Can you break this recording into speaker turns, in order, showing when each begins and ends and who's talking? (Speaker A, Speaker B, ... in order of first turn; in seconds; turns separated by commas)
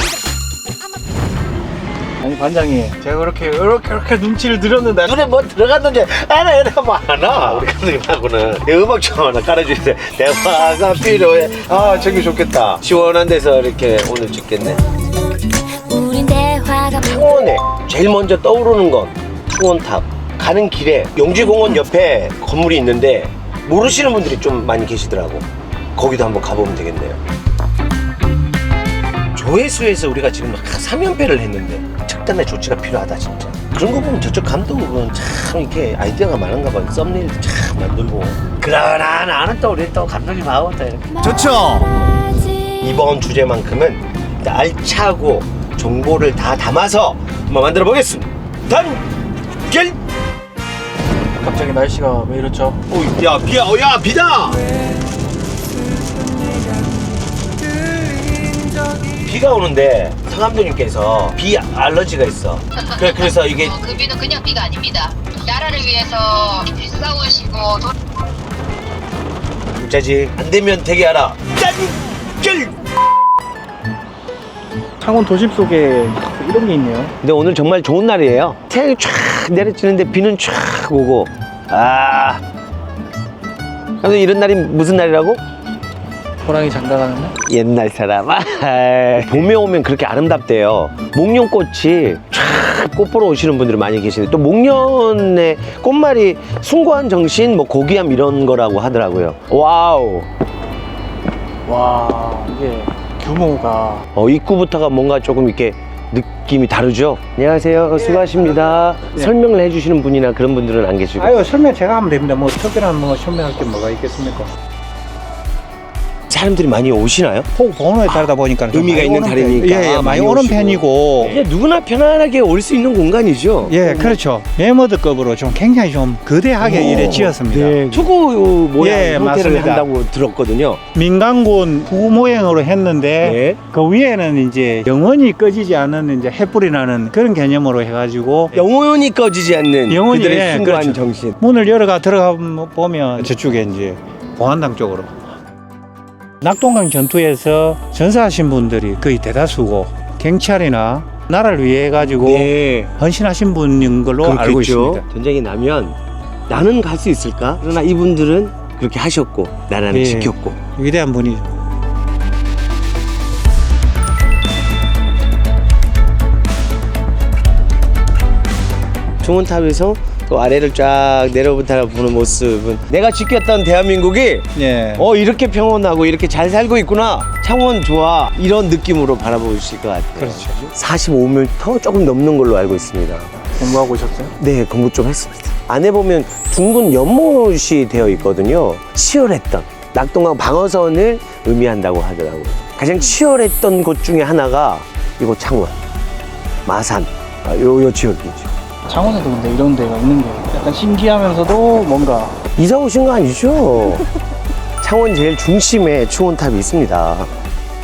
Speaker A: 2.2-5.0, Speaker B: 4.8-14.8, Speaker C: 15.7-17.3, Speaker B: 17.0-27.2, Speaker B: 29.3-42.0, Speaker B: 42.6-49.0, Speaker B: 49.6-50.0, Speaker A: 51.3-52.8, Speaker B: 52.9-54.6, Speaker B: 59.0-63.9, Speaker C: 63.7-67.9, Speaker B: 69.8-72.8, Speaker A: 75.0-77.1, Speaker B: 77.2-82.4, Speaker B: 84.0-85.4, Speaker A: 86.4-87.3, Speaker B: 87.4-100.3, Speaker A: 101.7-104.0, Speaker B: 104.2-111.4, Speaker D: 108.1-109.3, Speaker D: 111.2-114.5, Speaker B: 116.3-117.5, Speaker D: 117.5-121.4, Speaker B: 118.0-124.1, Speaker D: 123.6-128.0, Speaker B: 126.6-130.8, Speaker D: 128.8-129.9, Speaker D: 130.9-138.7, Speaker B: 133.2-133.6, Speaker B: 138.5-141.4, Speaker D: 139.9-145.1, Speaker D: 146.4-155.1, Speaker B: 152.1-152.9, Speaker B: 154.2-156.0, Speaker B: 156.5-160.6, Speaker D: 159.9-161.6, Speaker B: 169.2-183.3, Speaker D: 174.6-175.1, Speaker D: 180.2-180.7, Speaker A: 183.6-184.3, Speaker B: 184.4-195.8, Speaker B: 196.7-198.5, Speaker A: 198.9-202.4, Speaker B: 202.6-204.1, Speaker B: 204.8-207.3